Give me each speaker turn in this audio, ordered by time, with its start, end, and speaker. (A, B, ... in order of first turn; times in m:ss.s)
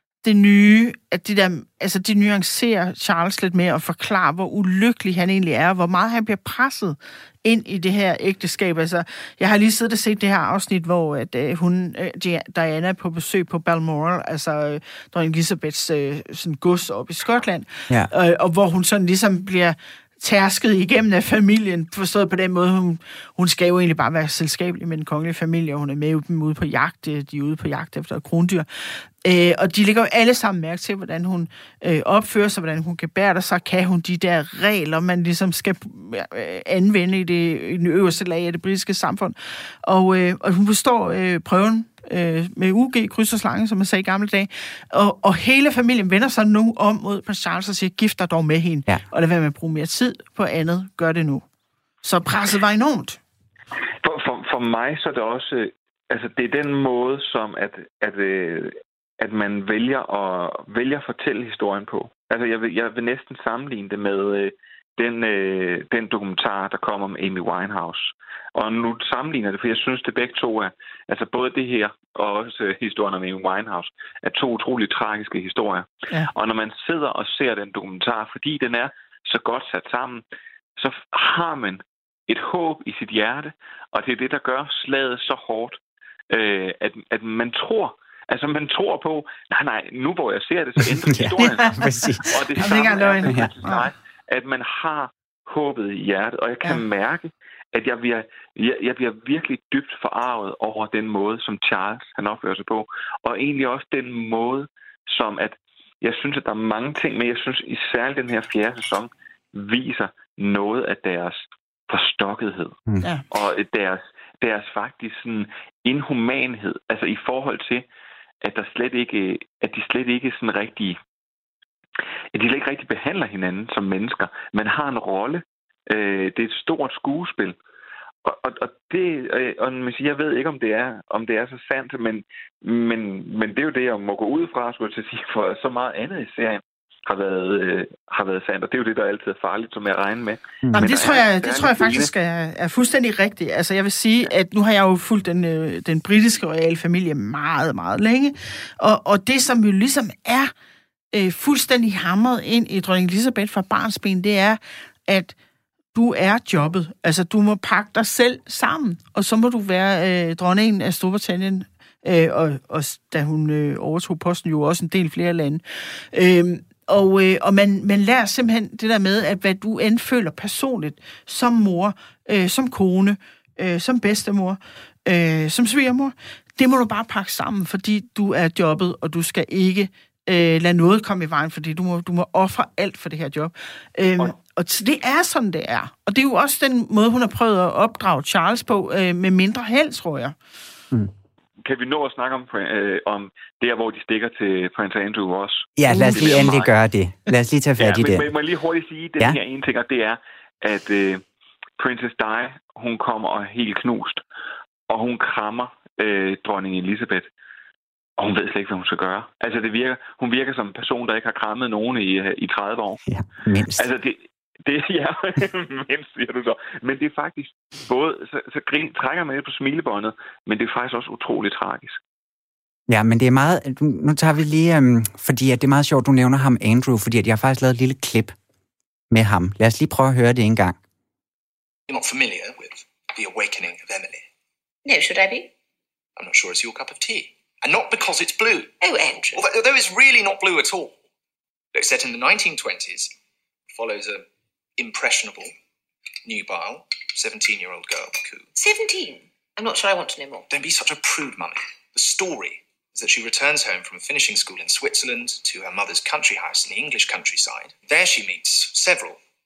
0:00.2-0:51.5 A
0:52.0-0:53.2 A
0:54.0-1:20.2 B
1:20.8-1:25.8 B
1:26.3-1:52.8 B
1:31.1-1:32.4 C
1:31.4-1:33.9 A
1:53.3-1:57.8 B
1:58.4-2:01.0 B
2:02.3-2:07.6 B
2:08.2-2:22.1 B
2:20.8-2:30.5 A
2:31.1-2:35.4 A
2:35.9-3:10.4 A
3:11.6-3:16.7 B
3:15.8-3:18.3 C
3:15.9-3:16.4 A
3:17.8-3:21.2 B
3:21.8-3:24.2 B
3:24.9-3:27.3 B
3:28.2-3:33.0 B
3:33.1-3:33.8 C
3:33.8-3:42.0 B
3:42.9-3:48.3 C
3:49.1-3:50.8 C
3:51.9-3:54.3 D
3:54.8-3:55.5 E
3:56.2-3:58.8 D
3:58.8-3:59.5 E
3:59.3-4:01.0 D
4:01.7-4:03.1 D
4:03.7-4:04.3 D
4:04.8-4:05.5 D
4:06.2-4:08.5 D
4:08.6-4:10.5 E
4:10.5-4:19.2 D